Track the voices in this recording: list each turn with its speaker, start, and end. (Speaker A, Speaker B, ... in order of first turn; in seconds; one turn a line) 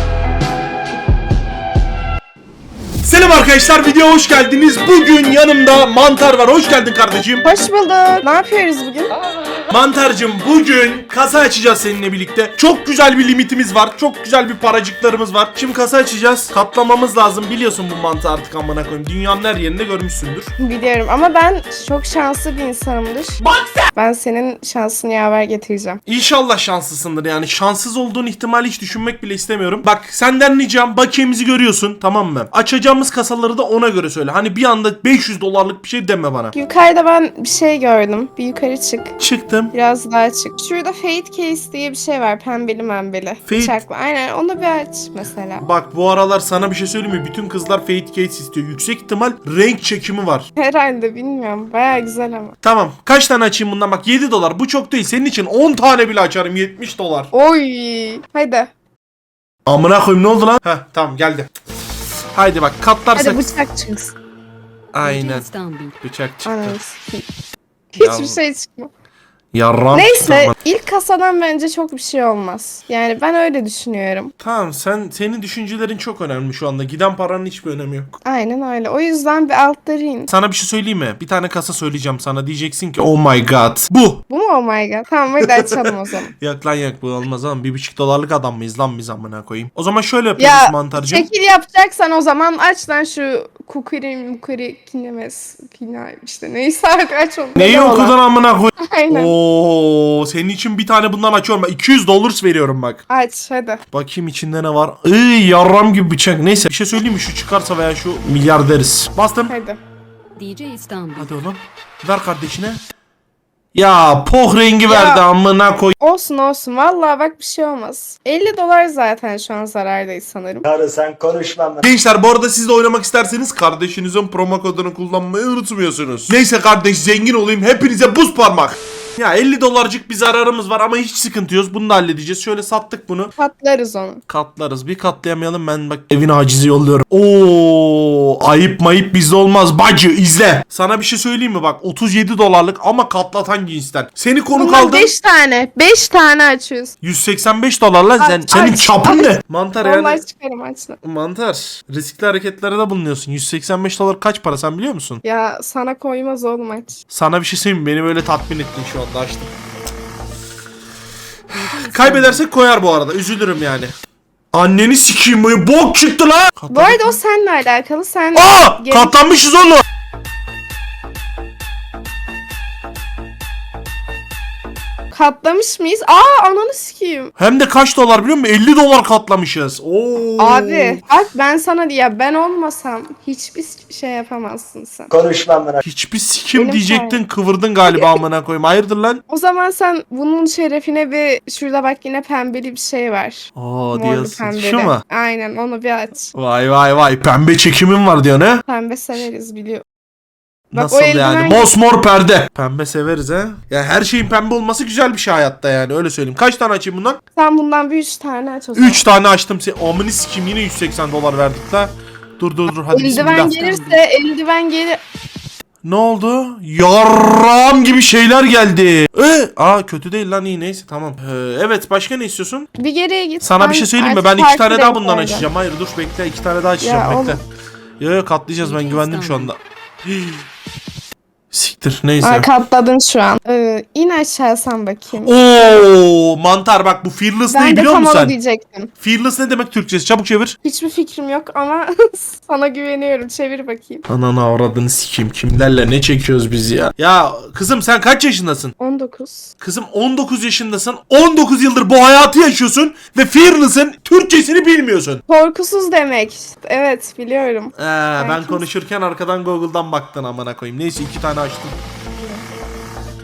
Speaker A: 3.0-7.4
Speaker B: 7.4-9.1
Speaker A: 9.7-20.5
Speaker B: 20.6-23.4
Speaker A: 23.4-23.9
Speaker B: 23.9-26.0
Speaker A: 26.1-36.5
Speaker B: 36.5-39.1
Speaker A: 39.2-39.7
Speaker B: 39.7-45.7
Speaker A: 43.5-43.8
Speaker A: 45.6-50.5
Speaker B: 50.6-52.6
Speaker A: 52.6-57.3
Speaker B: 57.3-58.7
Speaker A: 59.7-61.5
Speaker A: 62.3-63.4
Speaker B: 63.2-64.2
Speaker A: 64.9-65.5
Speaker C: 65.0-65.9
Speaker A: 66.0-66.8
Speaker B: 66.5-67.3
Speaker B: 68.0-68.9
Speaker A: 68.0-68.4
Speaker A: 69.5-70.6
Speaker B: 69.9-74.3
Speaker A: 74.4-78.1
Speaker B: 78.2-80.3
Speaker A: 80.3-84.2
Speaker B: 84.3-86.3
Speaker A: 85.4-91.3
Speaker B: 90.4-98.2
Speaker A: 97.6-103.0
Speaker B: 98.8-99.3
Speaker B: 103.1-103.8
Speaker A: 103.9-109.5
Speaker B: 109.5-109.8
Speaker C: 110.4-111.3
Speaker A: 111.2-112.8
Speaker A: 113.7-116.0
Speaker B: 114.9-115.2
Speaker B: 116.0-120.7
Speaker D: 120.6-121.8
Speaker A: 121.8-133.3
Speaker B: 133.4-134.2
Speaker A: 134.3-145.1
Speaker B: 144.5-146.9
Speaker A: 147.0-150.2
Speaker B: 148.2-151.0
Speaker A: 151.0-155.2
Speaker B: 155.2-157.0
Speaker A: 157.1-159.5
Speaker C: 161.5-162.4
Speaker A: 161.9-163.9
Speaker A: 164.5-167.2
Speaker B: 166.7-169.2
Speaker A: 168.3-169.8
Speaker B: 175.1-177.3
Speaker A: 177.4-181.0
Speaker B: 180.4-185.1
Speaker D: 185.1-185.8
Speaker A: 185.8-189.2
Speaker B: 186.5-187.2
Speaker B: 187.9-188.2
Speaker B: 189.3-196.3
Speaker A: 193.6-195.0
Speaker A: 196.3-198.6
Speaker B: 198.7-199.8
Speaker A: 200.7-207.2
Speaker B: 200.8-201.7
Speaker B: 207.3-209.1
Speaker A: 208.8-213.6
Speaker B: 212.9-215.0
Speaker C: 213.1-214.0
Speaker A: 215.8-222.7
Speaker B: 222.8-225.5
Speaker A: 223.4-227.4
Speaker B: 226.8-227.4
Speaker A: 228.0-230.4
Speaker C: 228.6-229.5
Speaker A: 231.5-232.5
Speaker B: 232.2-235.4
Speaker A: 235.2-238.4
Speaker B: 237.5-238.9
Speaker A: 239.0-240.6
Speaker B: 240.6-244.1
Speaker A: 244.1-248.8
Speaker B: 248.8-249.5
Speaker A: 249.6-255.2
Speaker B: 255.3-258.6
Speaker A: 257.8-261.8